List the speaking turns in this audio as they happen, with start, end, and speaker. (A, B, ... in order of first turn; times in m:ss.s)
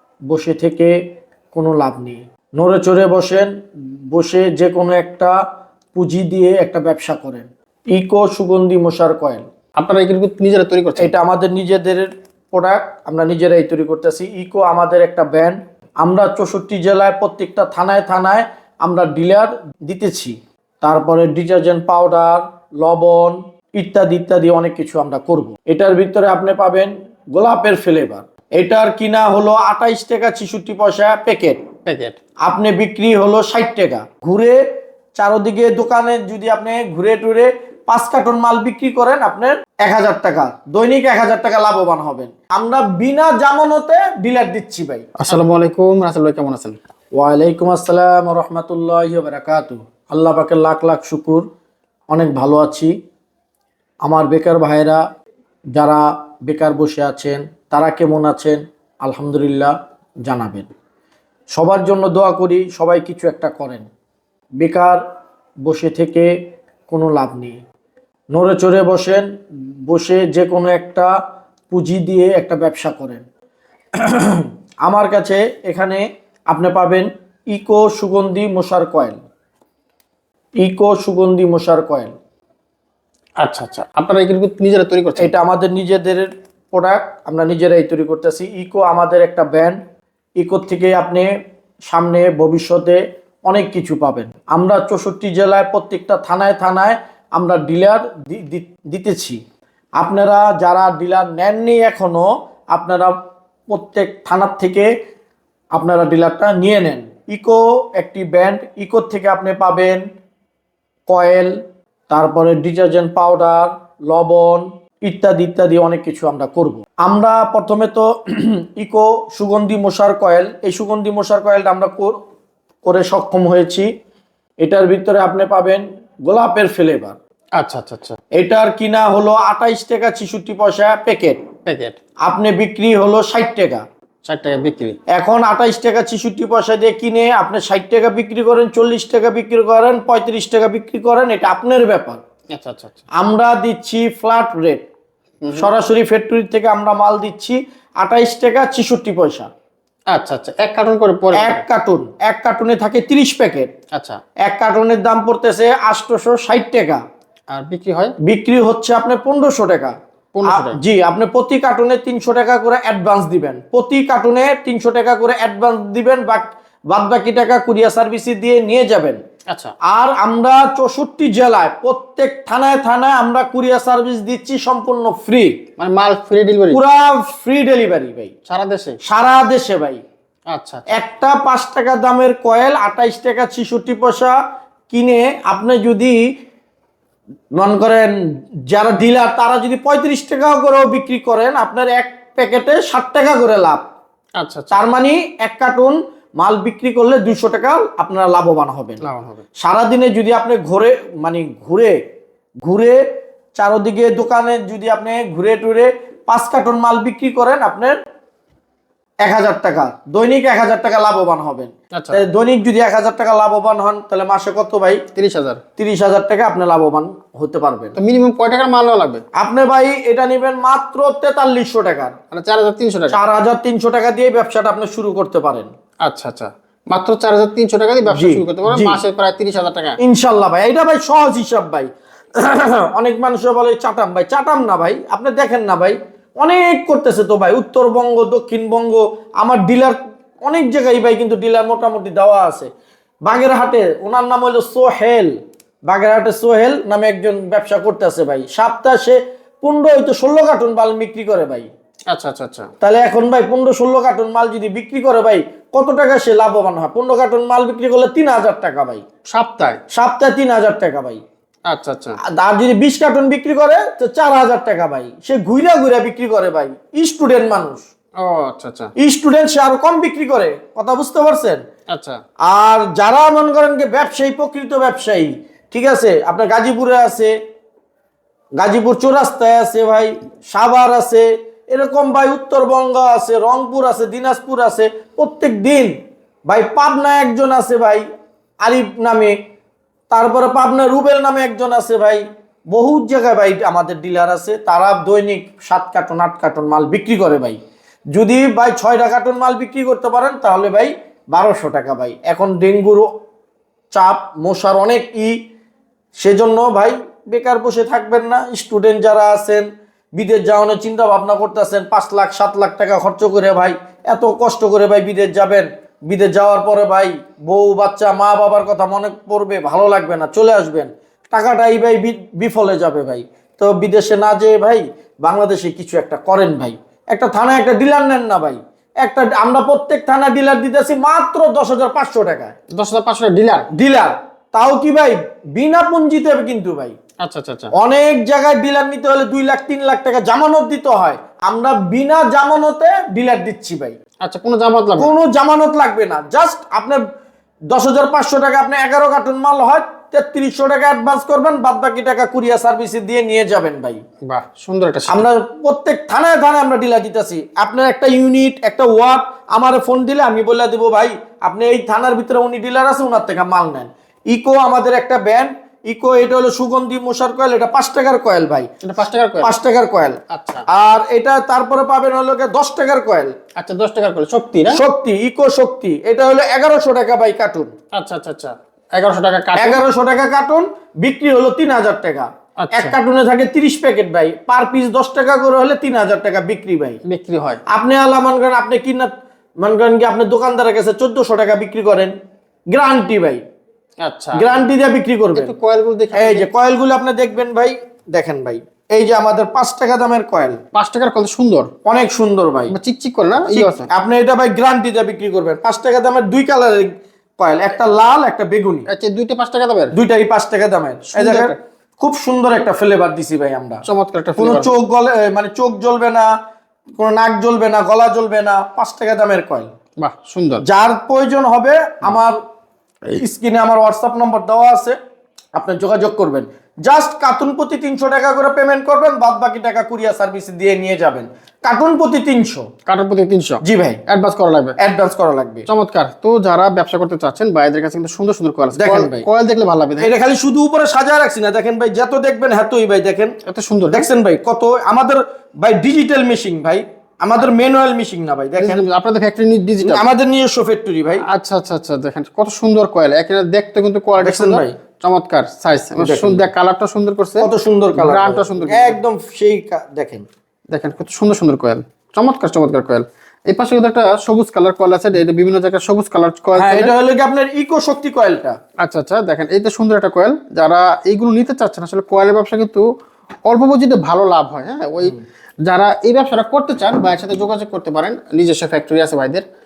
0:00.3-0:01.0 A
0:01.5-0:03.5 A
0:04.1-0:05.4 A
0:06.0-0:09.4 A
0:09.8-0:11.1 B
0:11.0-0:31.6 A
0:31.8-0:32.2 B
0:32.4-0:34.6 A
0:35.2-0:45.1 A
0:45.2-0:46.8 B
0:47.2-0:51.4 A
0:52.1-0:52.9 A
0:54.0-0:55.0 A
0:55.8-1:00.7 A
1:01.5-1:03.9 A
1:04.6-1:05.0 A
1:05.6-1:06.3 A
1:06.9-1:07.6 A
1:08.3-1:09.3 A
1:09.9-1:11.1 A
1:11.7-1:13.2 A
1:14.0-1:19.2 A
1:20.6-1:22.1 A
1:23.4-1:25.3 B
1:25.2-1:29.8 A
1:30.4-1:31.3 A
1:31.9-1:39.4 A
1:40.0-1:43.2 A
1:43.7-1:44.9 A
1:45.7-1:50.0 A
1:51.1-1:51.6 A
1:52.1-2:02.2 A
2:02.8-2:03.9 A
2:04.6-2:07.2 A
2:07.6-2:08.2 B
2:08.4-2:11.4 A
2:11.6-2:12.0 B
2:12.2-2:13.8 A
2:14.2-2:15.0 B
2:15.1-2:22.2 A
2:22.5-2:23.0 B
2:23.2-2:24.8 A
2:25.4-2:25.7 B
2:25.5-2:29.5 A
2:30.1-2:31.6 B
2:31.4-2:33.7 A
2:33.9-2:34.2 B
2:34.4-2:37.0 A
2:37.5-2:38.2 B
2:38.2-2:39.9 A
2:40.3-2:40.8 B
2:40.5-2:49.2 A
2:49.5-2:49.8 B
2:49.9-2:55.6 A
2:55.8-2:56.8 B
2:56.7-2:58.3 A
2:58.5-2:59.0 B
2:59.0-3:00.0 A
3:00.5-3:01.0 B
3:00.9-3:04.4 A
3:04.9-3:06.2 A
3:07.6-3:08.1 A
3:08.7-3:13.8 A
3:14.4-3:14.9 B
3:14.7-3:19.0 A
3:19.0-3:19.4 B
3:19.6-3:22.0 A
3:22.6-3:23.0 A
3:23.6-3:28.0 A
3:29.2-3:35.0 A
3:31.9-3:32.2 B
3:35.1-3:35.6 B
3:35.8-3:38.0 A
3:38.0-3:39.2 B
3:39.4-3:42.2 A
3:42.3-3:43.2 B
3:43.1-3:45.7 A
3:46.0-3:50.0 B
3:48.1-3:49.0 A
3:50.0-4:02.7 A
4:03.3-4:05.3 A
4:05.9-4:11.7 A
4:12.1-4:12.7 B
4:12.8-4:19.0 A
4:19.3-4:19.8 B
4:19.9-4:21.2 A
4:21.7-4:22.2 B
4:22.3-4:27.8 A
4:28.2-4:28.9 B
4:29.0-4:31.6 A
4:31.9-4:32.2 B
4:32.5-4:37.3 A
4:38.6-4:45.9 A
4:46.5-4:48.0 A
4:48.6-4:49.4 A
4:50.1-4:57.6 A
4:58.1-5:03.1 A
5:03.9-5:05.4 A
5:06.2-5:32.6 A
5:32.7-5:33.7 B
5:33.7-5:37.0 A
5:37.2-5:37.7 B
5:37.7-5:44.0 A
5:44.2-5:45.1 B
5:45.0-5:47.0 A
5:47.7-5:54.0 A
5:54.3-5:55.3 B
5:55.1-6:08.7 A
6:08.8-6:09.6 B
6:09.4-6:10.2 A
6:10.3-6:10.6 B
6:10.7-6:13.3 A
6:13.6-6:14.8 B
6:14.7-6:17.7 A
6:17.9-6:19.8 B
6:19.6-6:27.0 A
6:22.6-6:23.0 B
6:27.0-6:27.6 B
6:27.7-6:29.1 A
6:29.6-6:32.1 A
6:32.7-6:33.4 A
6:34.0-6:34.5 B
6:34.3-6:35.5 A
6:35.4-6:36.5 B
6:36.2-6:40.6 A
6:40.7-6:41.7 B
6:41.8-6:42.7 A
6:42.7-6:43.9 B
6:43.4-6:48.9 A
6:48.9-6:49.9 B
6:49.9-6:53.8 A
6:51.1-6:51.6 B
6:53.8-6:54.7 B
6:54.4-6:56.3 A
6:57.0-6:59.7 A
7:00.0-7:00.6 B
7:00.6-7:02.4 A
7:03.1-7:05.0 A
7:05.6-7:12.7 A
7:12.9-7:14.8 B
7:13.6-7:14.0 A
7:14.8-7:15.7 A
7:15.7-7:20.1 B
7:18.8-7:19.3 A
7:20.0-7:23.3 A
7:23.5-7:24.1 B
7:23.9-7:28.8 A
7:28.6-7:30.1 B
7:29.8-7:31.2 A
7:31.2-7:39.0 B
7:34.2-7:34.7 A
7:36.0-7:36.5 A
7:37.4-7:40.2 A
7:40.7-7:46.9 B
7:46.6-7:48.6 A
7:48.8-7:52.9 B
7:53.5-7:59.4 B